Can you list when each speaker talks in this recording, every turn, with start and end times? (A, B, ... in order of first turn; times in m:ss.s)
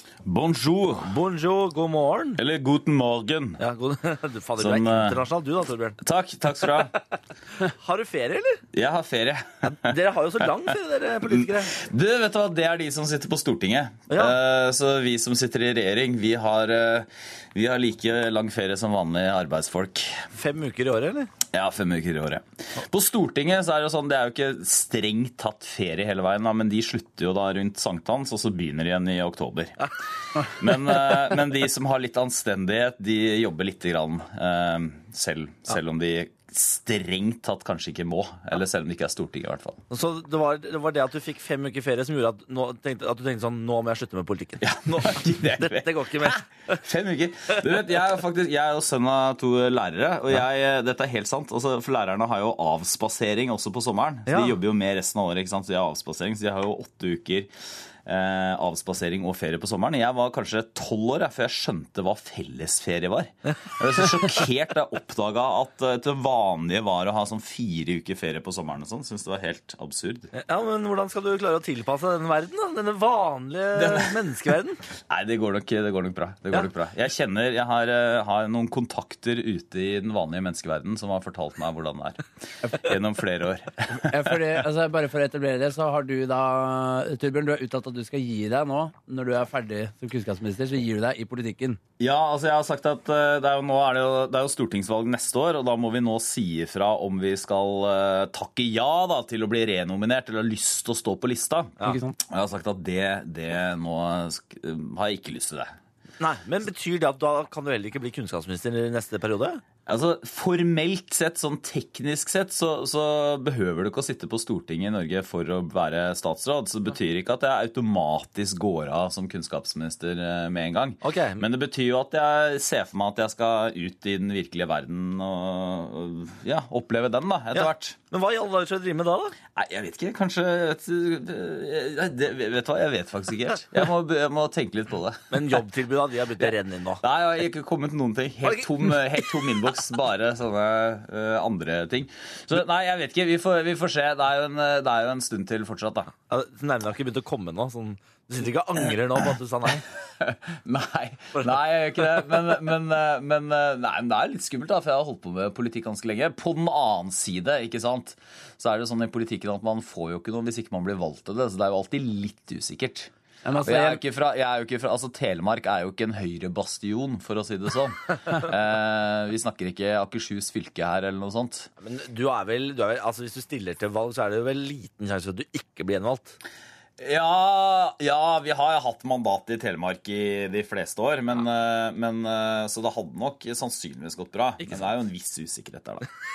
0:00.2-0:01.1 A
0:01.0-0:02.4 B
0:02.4-0:03.6 A
0:03.6-0:06.0 B
0:04.6-0:05.2 A
0:06.0-0:06.9 A
0:07.6-0:08.6 B
0:08.7-0:09.9 A
0:09.6-0:11.7 B
0:11.3-0:20.2 A
0:14.1-0:14.4 B
0:20.3-0:21.3 B
0:21.5-0:29.7 A
0:30.4-0:39.8 A
0:39.9-0:46.8 B
0:44.6-0:57.5 A
0:54.3-0:54.6 B
0:58.0-1:10.3 A
1:10.3-1:14.8 B
1:13.8-1:14.1 A
1:15.1-1:24.4 A
1:24.0-1:31.8 C
1:32.0-1:41.7 A
1:41.8-1:42.2 C
1:42.3-1:45.7 A
1:46.2-1:49.6 B
1:49.8-2:08.0 A
2:01.0-2:01.4 B
2:07.5-2:09.4 B
2:09.5-2:15.2 A
2:15.3-2:17.0 B
2:16.4-2:26.1 A
2:18.4-2:18.9 B
2:26.3-2:29.8 B
2:30.2-2:51.7 A
2:43.4-2:44.0 C
2:51.8-2:56.4 B
2:57.0-3:06.1 A
3:04.6-3:04.9 B